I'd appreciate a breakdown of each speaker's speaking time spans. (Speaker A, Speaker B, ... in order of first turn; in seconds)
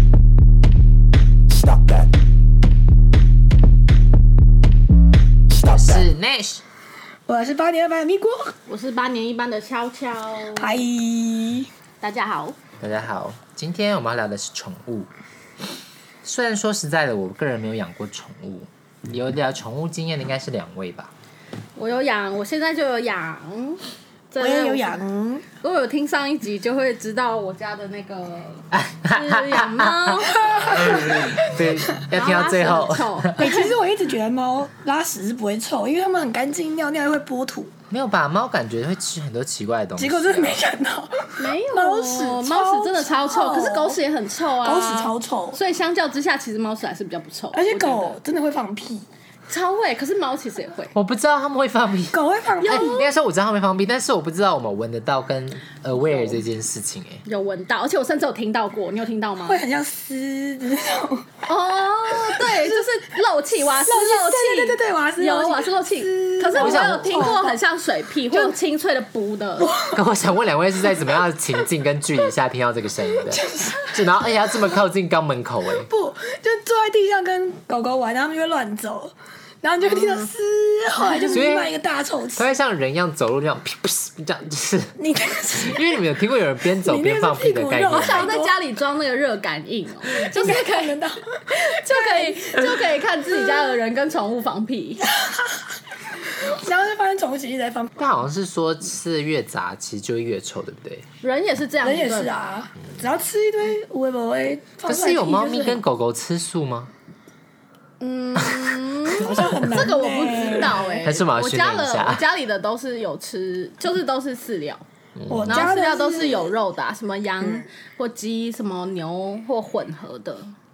Speaker A: 5.6-6.6, 12.8-15.1, 16.2-21.1, 28.7-33.4, 37.9-40.6, 50.9-57.2, 66.5-67.3, 69.9-75.9, 81.3-81.7, 82.4-85.0, 85.6-88.3, 98.0-101.1, 104.9-106.9, 111.0-112.2, 115.2-115.7
Speaker B: 7.3-8.6, 10.5-11.7, 24.4-25.5, 30.2-32.0, 33.4-37.7, 40.0-44.0, 44.6-45.6, 47.5-49.1, 52.1-53.0, 59.5-61.3, 62.2-62.9, 63.6-67.6, 68.3-68.6, 69.6-70.0, 73.3-73.9, 75.7-82.4, 85.0-85.8, 86.7-88.5, 90.1-93.7, 95.1-98.0, 101.8-105.8, 109.1-111.1, 115.3-116.6
Speaker C: 8.7-10.8, 12.0-12.6, 21.8-25.0, 25.6-31.0, 32.1-33.8, 41.4-48.2, 49.5-50.9, 52.6-53.1, 57.2-59.6, 61.5-69.7, 79.8-80.3, 81.0-81.4, 87.9-91.0, 91.5-95.1, 101.2-102.3, 108.0-114.8, 115.5-120.5